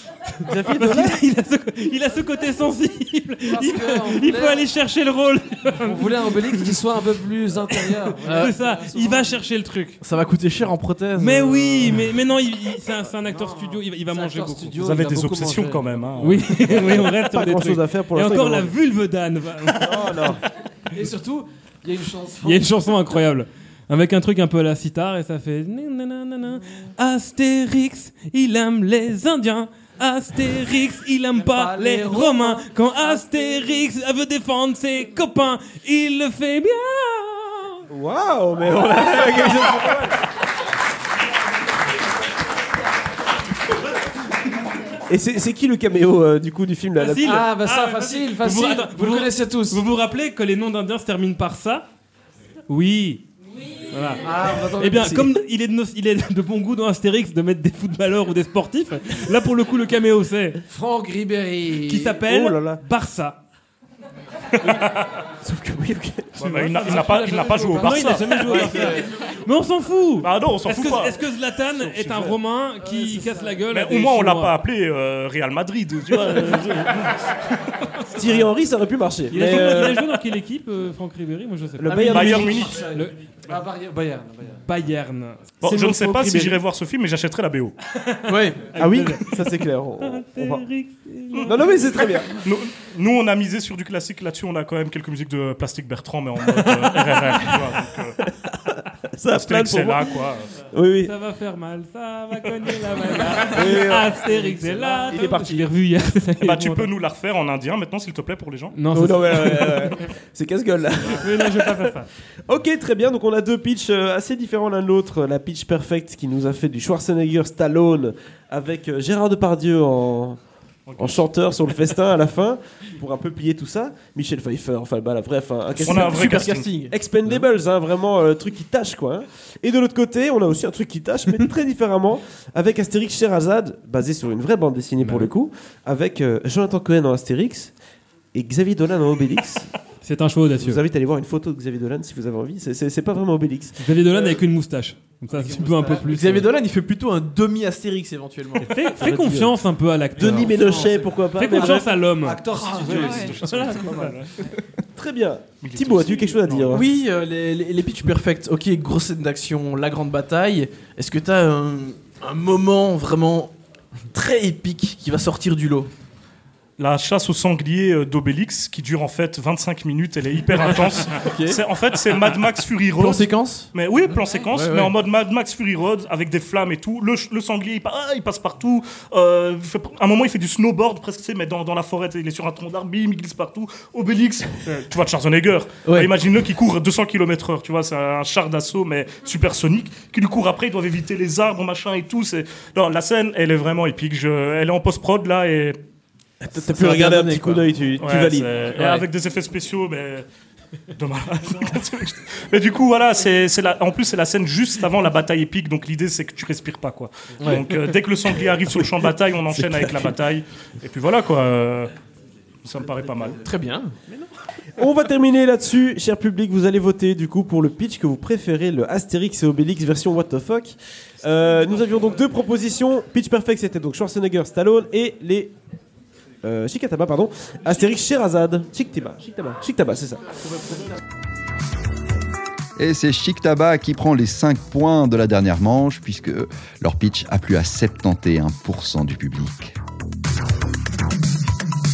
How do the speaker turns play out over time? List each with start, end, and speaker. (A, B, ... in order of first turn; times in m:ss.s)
0:00.4-0:06.7 A
0:00.4-0:01.2 B
0:03.5-0:04.7 C
0:05.7-0:09.4 C
0:07.8-0:10.0 A
0:08.2-0:08.5 D
0:10.0-0:12.1 D
0:11.2-0:14.8 A
0:13.3-0:17.1 C
0:14.8-0:16.9 E
0:16.2-0:20.4 A
0:16.7-0:18.8 B
0:19.8-0:20.4 B
0:20.9-0:23.0 C
0:22.4-0:37.8 A
0:31.3-0:33.7 C
0:37.9-0:40.2 B
0:45.1-0:47.4 B
0:47.0-0:51.9 A
0:47.2-0:49.8 C
0:52.7-1:00.6 A
0:54.2-0:55.4 C
1:00.7-1:02.2 C
1:01.9-1:03.4 A
1:02.2-1:02.8 B
1:04.5-1:05.2 E
1:05.4-1:06.5 B
1:06.4-1:08.4 E
1:06.4-1:06.8 A
1:06.6-1:09.0 C
1:07.7-1:14.5 A
1:08.5-1:09.0 D
1:10.2-1:11.2 E
1:11.8-1:12.3 E
1:13.7-1:17.5 E
1:18.1-1:20.2 B
1:19.3-1:23.2 A
1:21.8-1:22.8 B
1:21.9-1:24.6 C
1:22.1-1:22.7 E
1:24.6-1:25.4 A
1:25.6-1:27.7 E
1:25.6-1:26.6 B
1:27.9-1:32.4 A
1:28.3-1:28.7 D
1:28.8-1:30.6 B
1:31.5-1:32.3 B
1:32.4-1:38.2 E
1:36.5-1:37.7 A
1:38.3-1:40.1 B
1:39.3-1:40.5 E
1:40.7-1:41.1 B
1:41.0-1:46.9 A
1:43.4-1:45.7 B
1:46.4-1:48.8 E
1:48.7-1:50.0 A
1:48.9-1:51.9 B
1:51.0-1:52.1 A
1:52.5-2:00.4 B
2:00.9-2:01.2 E
2:01.0-2:17.7 B
2:05.8-2:06.7 E
2:05.8-2:06.9 D
2:15.0-2:15.3 A
2:18.3-2:19.7 B
2:20.0-2:20.8 A
2:20.6-2:23.8 B
2:23.8-2:26.5 A
2:25.3-2:26.2 C
2:26.0-2:28.8 D
2:28.6-2:34.2 A
2:28.9-2:29.6 B
2:30.2-2:31.9 B
2:30.2-2:33.8 C
2:32.6-2:34.3 E
2:34.9-2:36.8 B
2:35.6-2:36.8 E
2:36.7-2:43.5 D
2:44.1-2:45.9 D
2:46.8-3:15.8 E
2:51.2-2:51.6 D
2:53.0-2:53.7 D
2:54.5-2:55.0 D
3:05.9-3:06.1 D
3:16.4-3:17.6 D
3:16.5-3:18.5 B
3:18.0-3:20.2 E
3:21.0-3:31.9 E
3:27.4-3:27.8 D
3:29.6-3:29.9 B
3:32.6-3:33.4 E
3:33.4-3:34.0 D
3:34.8-3:45.5 B
3:46.4-3:50.9 B
3:52.8-3:59.8 F